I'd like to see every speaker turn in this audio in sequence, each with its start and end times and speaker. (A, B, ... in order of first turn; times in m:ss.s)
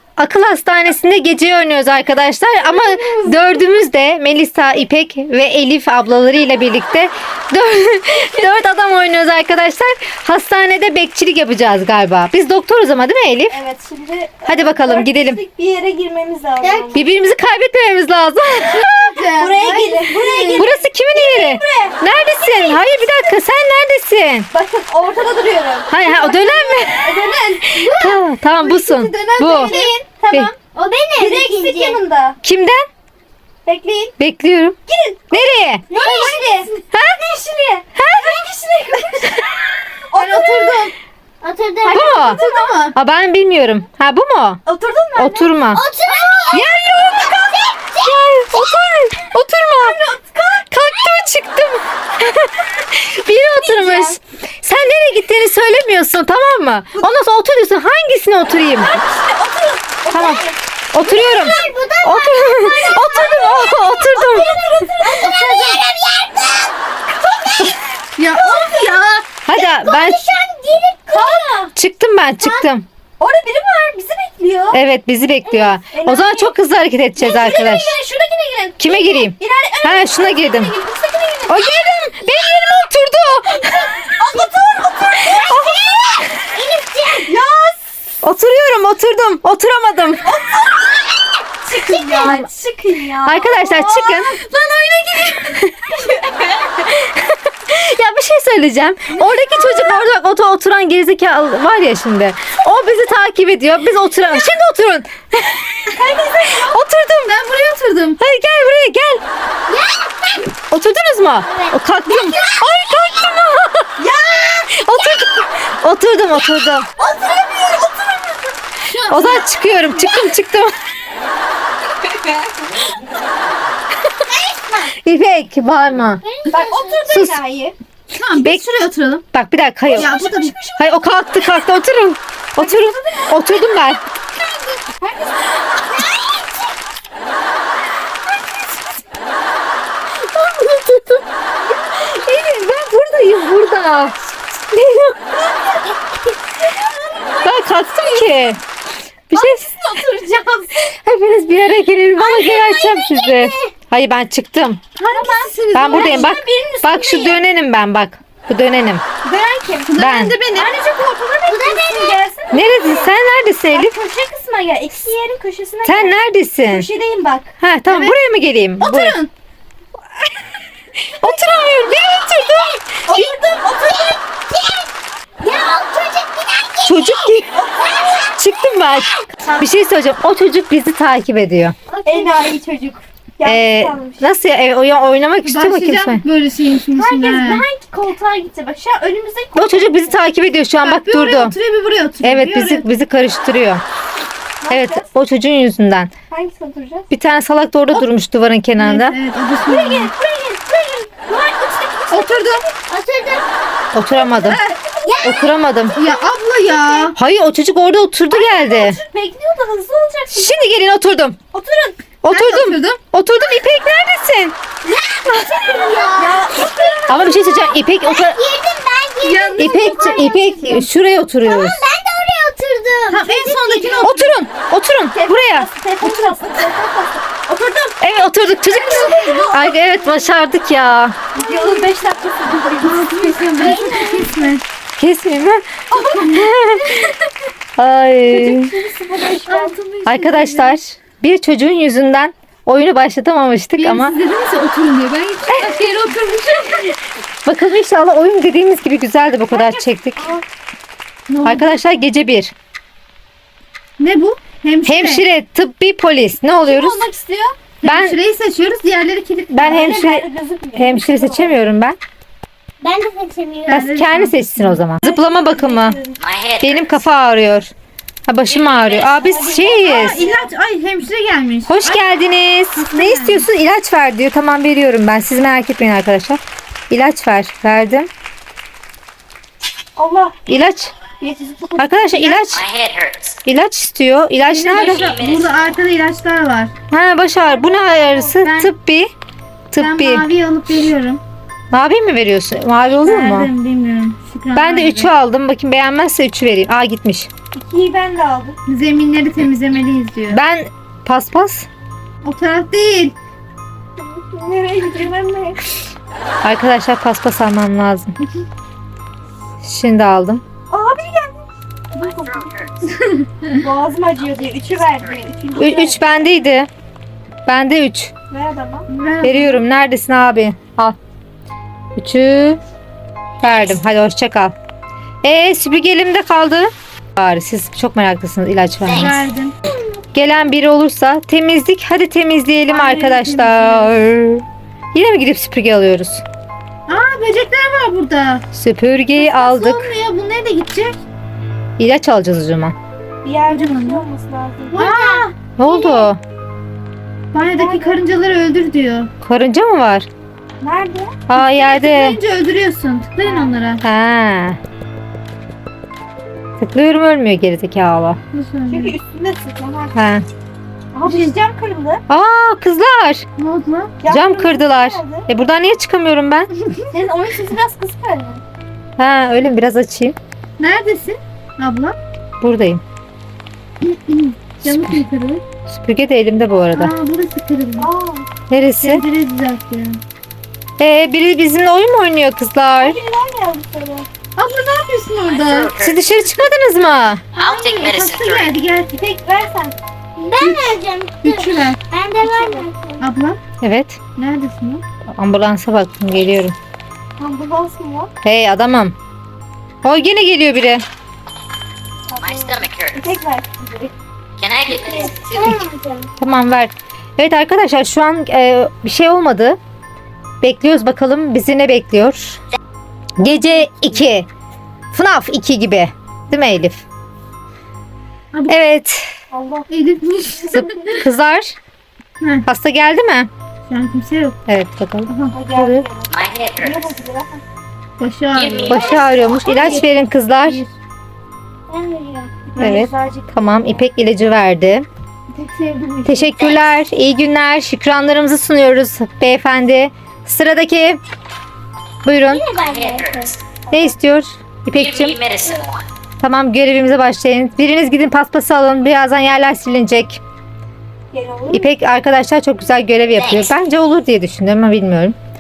0:00.2-0:13.6 A
0:02.7-0:03.6 B
0:13.5-0:17.1 B
0:14.5-0:15.4 A
0:16.9-0:19.1 A
0:18.6-0:20.7 C
0:19.3-0:23.4 B
0:20.6-0:24.5 A
0:24.5-0:26.2 B
0:25.9-0:27.1 A
0:26.2-0:26.6 C
0:26.9-0:27.9 B
0:27.8-0:29.7 A
0:27.8-0:30.0 C
0:29.4-0:30.6 B
0:30.8-0:32.0 D
0:31.2-0:32.4 B
0:32.4-0:32.9 A
0:33.6-0:34.1 B
0:34.2-0:34.8 A
0:34.9-0:39.4 B
0:35.3-0:35.8 A
0:35.9-0:36.7 D
0:36.9-0:37.2 A
0:38.0-0:38.4 A
0:40.1-0:40.9 B
0:40.1-0:40.9 C
0:41.4-0:42.0 D
0:41.8-0:42.8 B
0:41.9-0:43.0 C
0:41.9-0:42.4 A
0:42.9-0:44.6 A
0:44.7-0:45.5 B
0:45.2-0:45.8 A
0:45.7-0:46.7 D
0:46.1-0:46.6 B
0:46.5-0:50.0 A
0:47.3-0:48.2 D
0:49.8-0:50.8 B
0:50.7-0:59.0 A
0:53.5-0:54.2 B
0:58.8-1:00.6 B
1:00.1-1:04.5 A
1:01.0-1:06.8 D
1:03.0-1:05.8 B
1:07.3-1:07.6 D
1:08.2-1:09.2 C
1:08.2-1:09.0 B
1:09.5-1:10.4 A
1:09.5-1:11.5 D
1:11.1-1:11.7 B
1:11.8-1:12.9 A
1:12.4-1:12.7 D
1:13.2-1:14.8 B
1:14.7-1:18.0 A
1:15.5-1:15.7 D
1:15.9-1:16.5 B
1:17.2-1:21.7 B
1:18.8-1:20.7 A
1:21.5-1:24.1 A
1:24.0-1:25.8 B
1:25.4-1:27.4 D
1:25.5-1:25.8 A
1:27.3-1:27.8 B
1:28.2-1:30.4 A
1:30.2-1:31.0 B
1:31.6-1:36.7 B
1:31.7-1:32.4 D
1:33.2-1:34.4 A
1:36.9-1:45.9 A
1:39.1-1:39.9 B
1:45.9-1:46.8 B
1:46.6-1:47.4 A
1:47.3-1:48.2 C
1:48.2-1:49.2 A
1:49.7-1:50.5 D
1:50.6-1:53.9 A
1:51.4-1:51.8 D
1:54.0-1:54.9 B
1:54.8-1:56.9 A
1:57.0-1:58.6 B
1:58.8-1:59.5 C
1:59.1-2:00.7 A
2:04.3-2:04.9 D
2:04.9-2:06.2 A
2:06.2-2:07.1 D
2:06.5-2:07.8 B
2:07.1-2:07.4 A
2:08.2-2:09.2 C
2:08.4-2:08.6 A
2:09.3-2:10.2 A
2:09.9-2:10.8 B
2:09.9-2:10.6 C
2:10.8-2:14.0 A
2:12.6-2:13.6 B
2:15.0-2:15.6 B
2:20.3-2:21.2 A
2:21.9-2:24.2 A
2:24.7-2:25.2 A
2:26.6-2:28.3 B
2:27.4-2:28.6 A
2:29.3-2:29.6 A
2:29.3-2:30.8 B
2:30.9-2:34.8 A
2:32.2-2:33.7 D
2:35.0-2:36.3 C
2:35.1-2:37.4 B
2:35.7-2:39.0 A
2:39.2-2:40.0 B
2:39.8-2:40.7 C
2:40.0-2:40.4 A
2:40.5-2:43.1 B
2:41.5-2:42.2 D
2:42.5-2:44.0 A
2:43.7-2:47.5 B
2:45.8-2:46.9 A
2:47.6-2:49.2 A
2:47.9-2:48.2 C
2:48.8-2:49.3 C
2:51.1-2:52.8 A
2:53.1-2:54.2 B
2:53.9-2:54.9 D
2:55.4-2:57.3 D
2:56.8-2:57.5 A
2:57.5-2:58.1 B
2:57.8-2:58.2 D
2:58.2-3:01.8 A
3:02.0-3:04.3 B
3:03.4-3:06.2 A
3:05.4-3:07.6 C
3:06.9-3:10.2 B
3:09.6-3:11.6 A
3:10.8-3:12.8 C
3:12.2-3:13.8 A
3:14.6-3:15.1 B
3:14.7-3:16.1 A
3:16.3-3:17.1 B
3:17.1-3:19.2 A
3:18.8-3:20.1 C
3:19.6-3:22.8 B
3:22.1-3:22.6 C
3:22.9-3:23.5 D
3:23.9-3:24.6 A
3:24.3-3:25.4 B
3:24.4-3:24.8 C
3:25.0-3:25.5 D
3:25.2-3:26.0 A
3:25.9-3:27.2 C
3:26.0-3:27.1 B
3:27.2-3:29.0 A
3:28.3-3:30.6 B
3:30.3-3:31.4 A
3:31.5-3:32.0 B
3:32.2-3:34.6 A
3:32.3-3:33.0 C
3:34.9-3:36.4 D
3:35.4-3:36.2 C
3:35.7-3:37.7 B
3:37.1-3:38.4 A
3:37.9-3:40.7 D
3:39.2-3:40.9 C
3:39.6-3:41.8 A
3:41.4-3:44.1 D
3:43.1-3:44.4 C
3:43.6-3:43.9 B
3:44.0-3:45.7 A
3:45.1-3:47.9 B
3:46.0-3:46.4 C
3:48.0-3:51.2 A
3:48.8-3:49.5 C
3:48.9-3:49.7 B
3:51.3-3:54.2 B
3:51.4-3:51.9 C
3:52.8-3:54.6 C
3:53.5-3:54.4 D
3:55.0-3:55.6 A
3:55.9-3:56.4 B
3:56.2-3:56.9 A
3:57.8-3:58.7 A
3:58.3-3:59.8 B
3:59.4-4:00.8 C
4:00.1-4:04.1 A
4:03.8-4:06.9 C
4:05.5-4:05.9 A
4:07.4-4:10.3 A
4:09.5-4:10.4 B
4:11.3-4:11.7 C
4:11.4-4:12.5 A
4:14.0-4:15.2 C
4:14.8-4:17.1 A
4:16.7-4:17.6 B
4:17.8-4:19.8 C
4:17.8-4:18.2 A
4:19.5-4:22.0 A
4:19.6-4:21.6 B
4:22.8-4:23.8 D
4:23.7-4:24.9 C
4:23.7-4:26.0 A
4:25.0-4:26.2 B
4:26.2-4:27.0 E
4:26.6-4:27.7 A
4:28.3-4:30.2 A
4:28.5-4:29.6 E
4:29.2-4:30.5 B
4:29.7-4:32.0 C
4:31.7-4:38.1 A
4:32.8-4:33.5 C
4:40.0-4:40.4 B
4:40.5-4:40.9 A
4:41.2-4:42.6 B
4:41.8-4:42.7 A
4:42.5-4:43.4 E
4:43.5-4:45.0 A
4:44.4-4:46.7 C
4:44.7-4:45.7 E
4:46.9-4:49.1 A
4:47.4-4:48.4 B
4:48.4-4:48.7 C
4:49.7-4:50.3 A
4:49.8-4:51.2 C
4:51.7-4:53.5 A
4:53.0-4:55.1 C
4:54.5-4:57.3 A
4:57.5-4:58.6 B
4:58.7-5:00.4 C
5:00.3-5:01.7 A
5:02.2-5:03.2 C
5:04.0-5:05.6 B
5:06.4-5:08.1 A
5:09.6-5:10.4 A
5:10.7-5:12.7 B
5:12.0-5:12.9 E
5:13.1-5:13.5 C
5:13.5-5:16.0 B
5:15.6-5:16.7 A
5:17.5-5:18.1 A
5:18.3-5:18.9 B
5:18.9-5:19.6 C
5:19.2-5:21.0 A
5:22.0-5:22.6 A
5:23.4-5:24.6 A
5:23.4-5:23.8 E
5:25.2-5:29.2 A
5:28.8-5:29.2 E
5:29.0-5:29.6 C
5:30.1-5:36.2 A
5:32.7-5:34.0 C
5:36.9-5:38.4 C
5:38.5-5:39.9 A
5:39.2-5:41.0 C
5:41.8-5:42.8 A
5:43.2-5:44.9 B
5:43.5-5:44.1 C
5:44.7-5:45.4 C
5:44.8-5:45.2 D
5:45.6-5:46.2 A
5:45.7-5:46.1 B
5:47.3-5:49.1 C
5:47.4-5:48.0 B
5:49.2-5:50.1 A
5:50.6-5:51.2 B
5:51.3-5:52.2 A
5:51.3-5:53.8 C
5:53.2-5:53.7 B
5:53.8-5:54.6 A
5:56.6-5:58.2 A
5:58.3-5:59.0 C
5:58.7-6:00.0 B
6:00.0-6:00.3 A
6:00.9-6:02.0 B
6:01.0-6:01.4 C
6:02.1-6:03.3 A
6:03.4-6:04.0 C
6:04.0-6:05.3 B
6:04.1-6:06.5 A
6:06.9-6:08.4 B
6:09.0-6:10.2 A
6:10.6-6:12.0 C
6:12.4-6:12.8 A
6:13.8-6:15.4 C
6:14.6-6:15.0 A
6:15.7-6:16.9 A
6:16.7-6:17.9 C
6:17.8-6:18.3 B
6:18.5-6:19.0 A
6:18.8-6:20.0 C
6:20.8-6:23.0 A
6:22.8-6:24.1 B
6:24.4-6:25.8 C
6:25.3-6:26.0 E
6:25.8-6:27.2 A
6:27.4-6:29.1 C
6:27.4-6:28.5 E
6:29.0-6:29.8 B
6:30.2-6:33.1 D
6:30.4-6:33.4 C
6:32.3-6:32.7 B
6:33.6-6:34.0 A
6:34.2-6:34.8 C
6:35.2-6:36.6 A
6:37.2-6:38.1 B
6:38.2-6:39.0 A
6:39.8-6:40.8 A
6:42.1-6:43.9 B
6:42.2-6:43.2 E
6:44.4-6:45.6 E
6:44.7-6:46.1 D
6:45.4-6:45.7 A
6:46.2-6:49.6 A
6:50.4-6:52.4 A
6:53.2-6:54.3 A
6:53.2-6:54.0 B
6:54.9-6:56.8 A
6:58.3-6:58.7 C
6:58.5-6:59.1 A
6:59.3-6:59.7 B
6:59.7-7:01.0 C
7:00.2-7:01.0 B
7:00.5-7:01.6 A
7:02.2-7:02.5 C
7:02.5-7:03.3 A
7:03.7-7:04.4 C
7:04.5-7:05.9 A
7:05.1-7:05.4 C
7:05.3-7:07.4 B
7:06.1-7:06.8 E
7:08.0-7:09.0 C
7:08.3-7:09.7 E
7:08.6-7:10.6 A
7:08.9-7:09.5 D
7:09.4-7:09.8 B
7:09.5-7:09.9 C
7:10.4-7:10.7 C
7:11.7-7:12.4 D
7:12.5-7:13.9 B
7:12.6-7:14.9 A
7:15.3-7:16.3 C
7:16.0-7:21.0 A
7:16.4-7:16.7 E
7:22.0-7:22.5 A
7:22.2-7:23.4 D
7:22.5-7:23.4 E
7:23.7-7:24.0 B
7:23.7-7:25.2 A
7:24.7-7:25.9 E
7:26.2-7:30.2 A
7:31.1-7:31.7 B
7:31.5-7:35.2 A
7:33.2-7:33.6 E